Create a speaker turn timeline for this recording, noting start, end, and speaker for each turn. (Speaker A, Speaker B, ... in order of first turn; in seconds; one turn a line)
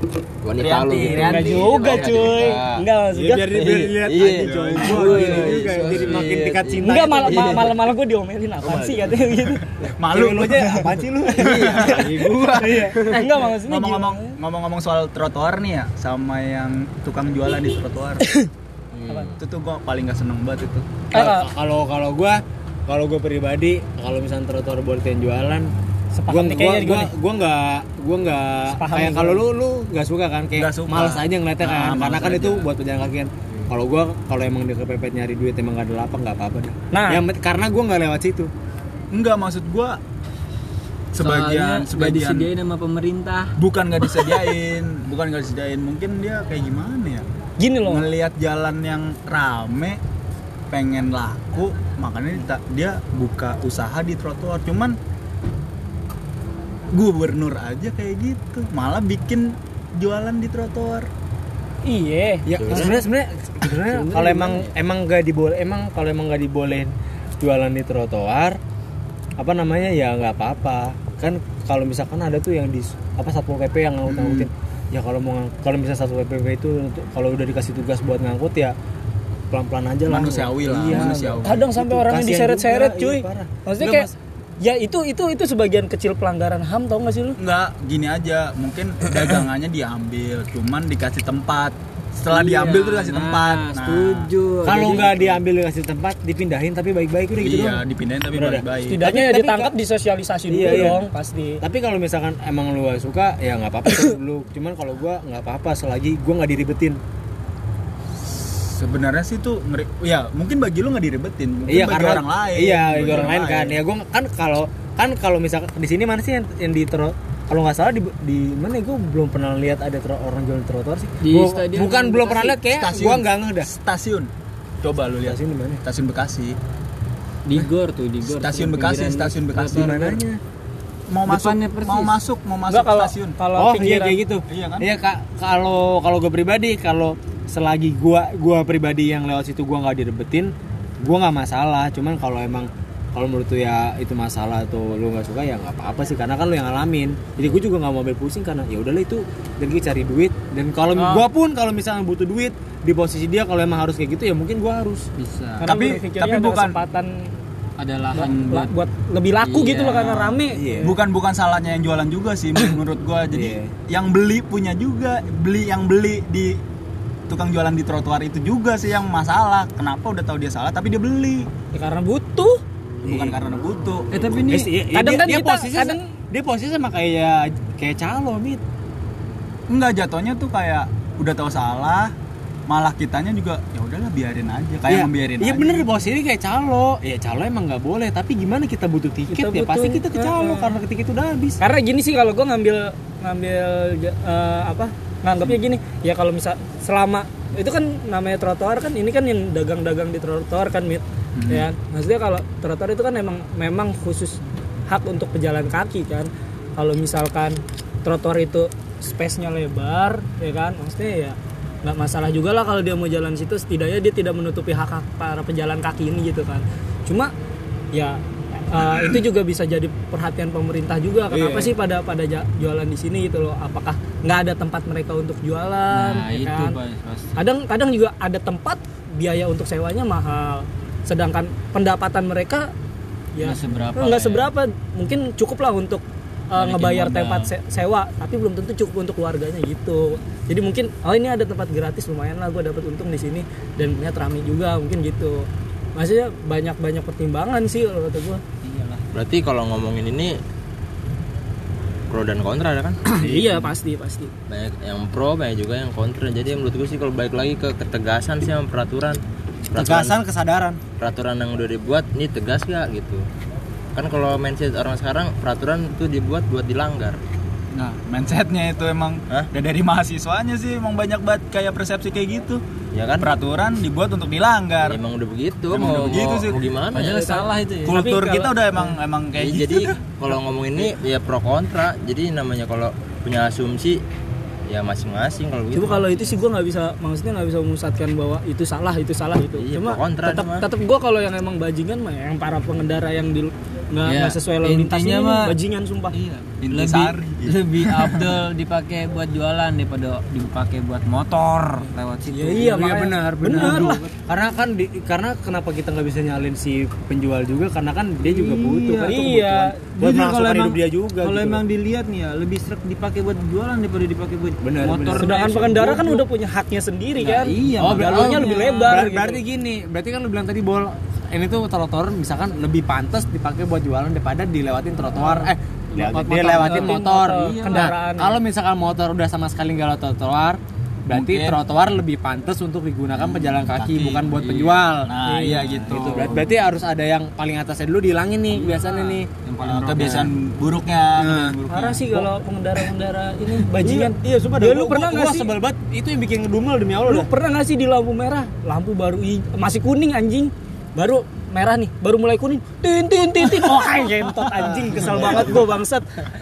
Speaker A: 0.4-2.8
Speaker B: 0.6-2.3
Speaker C: 1.0-1.6
Speaker D: 1.1-3.6
Speaker C: 3.1-7.7
Speaker A: 3.5-7.8
Speaker B: 4.2-6.1
Speaker E: 4.9-5.6
Speaker D: 6.8-9.7
Speaker A: 8.6-9.2
Speaker B: 10.0-18.3
Speaker C: 10.0-12.9
Speaker A: 11.4-13.2
Speaker D: 12.6-14.4
Speaker A: 18.9-19.4
Speaker B: 19.4-20.9
Speaker D: 21.1-21.5
Speaker C: 21.1-25.7
Speaker D: 26.1-27.1
Speaker C: 26.3-38.5
Speaker D: 28.7-29.4
Speaker B: 30.6-32.7
Speaker D: 36.9-37.2
Speaker B: 39.1-40.0
Speaker B: 41.1-42.5
Speaker E: 41.2-43.5
Speaker B: 43.6-47.3
Speaker D: 47.6-48.0
Speaker B: 47.8-50.0
Speaker B: 50.7-55.0
Speaker B: 56.9-61.1
Speaker D: 61.8-62.5
Speaker C: 62.5-68.6
Speaker A: 62.6-63.0
Speaker D: 64.1-64.6
Speaker C: 69.4-78.8
Speaker B: 74.1-74.5
Speaker C: 79.5-84.1
Speaker B: 80.1-81.6
Speaker D: 81.4-87.4
Speaker B: 87.4-94.3
Speaker E: 92.3-95.4
Speaker C: 94.6-99.7
Speaker B: 97.4-99.0
Speaker D: 98.9-101.6
Speaker C: 100.5-101.1
Speaker C: 101.6-107.0
Speaker B: 108.3-113.8
Speaker C: 111.7-123.7
Speaker E: 121.2-122.6
Speaker B: 122.7-124.3
Speaker B: 124.8-126.6
Speaker C: 125.2-125.8
Speaker E: 127.5-130.0
Speaker B: 128.2-130.2
Speaker C: 129.6-130.4
Speaker B: 131.1-133.4
Speaker E: 131.2-132.2
Speaker D: 132.7-134.2
Speaker C: 133.6-155.1
Speaker B: 134.5-134.9
Speaker E: 151.0-151.2
Speaker E: 155.2-155.7
Speaker D: 155.6-157.3
Speaker B: 155.6-156.8
Speaker E: 157.8-158.7
Speaker D: 158.1-160.8
Speaker B: 158.2-158.5
Speaker E: 159.4-160.5
Speaker C: 160.5-161.0
Speaker B: 160.8-166.6
Speaker C: 163.3-163.7
Speaker B: 167.3-171.5
Speaker D: 171.7-172.6
Speaker B: 173.0-174.1
Speaker C: 173.0-173.4
Speaker E: 174.1-174.7
Speaker C: 174.4-178.6
Speaker D: 174.9-176.1
Speaker B: 179.7-182.1
Speaker B: 182.7-185.8
Speaker C: 184.9-191.6
Speaker D: 189.3-190.7
Speaker D: 191.6-217.3
Speaker B: 201.4-201.7
Speaker D: 217.9-226.8
Speaker C: 221.3-221.7
Speaker E: 225.9-227.3
Speaker D: 227.4-232.7
Speaker D: 233.3-248.4
Speaker E: 233.4-234.5
Speaker E: 236.6-237.5
Speaker E: 248.7-249.0
Speaker A: 249.1-250.4
Speaker A: 252.1-253.7
Speaker D: 253.1-254.3
Speaker A: 254.5-259.2
Speaker A: 259.7-260.1
Speaker C: 259.7-260.8
Speaker A: 261.0-263.2
Speaker A: 263.9-267.2
Speaker B: 267.7-272.6
Speaker A: 272.9-273.3
Speaker B: 273.2-275.0
Speaker A: 274.9-277.2
Speaker B: 275.7-276.6
Speaker E: 276.9-278.0
Speaker D: 277.0-278.9
Speaker B: 277.9-280.0
Speaker A: 279.4-284.0
Speaker A: 284.7-286.4
Speaker D: 285.7-296.2
Speaker A: 289.6-290.7
Speaker E: 294.1-295.6
Speaker E: 296.1-304.1
Speaker B: 296.6-298.4
Speaker D: 302.3-304.0
Speaker C: 302.5-311.6
Speaker E: 308.2-309.2
Speaker D: 309.0-309.9
Speaker E: 310.0-316.0
Speaker C: 314.6-316.2
Speaker D: 315.1-319.4
Speaker E: 317.2-319.1
Speaker C: 317.8-335.2
Speaker D: 325.9-328.4
Speaker E: 326.2-327.9
Speaker B: 331.1-331.6
Speaker B: 333.6-334.3
Speaker E: 334.3-334.9
Speaker B: 335.0-336.5
Speaker E: 335.5-336.4
Speaker C: 335.9-339.3
Speaker E: 338.5-340.3
Speaker B: 339.6-342.2
Speaker C: 341.2-341.6
Speaker D: 341.7-345.5
Speaker C: 343.7-347.3
Speaker D: 347.1-356.1
Speaker C: 354.6-355.6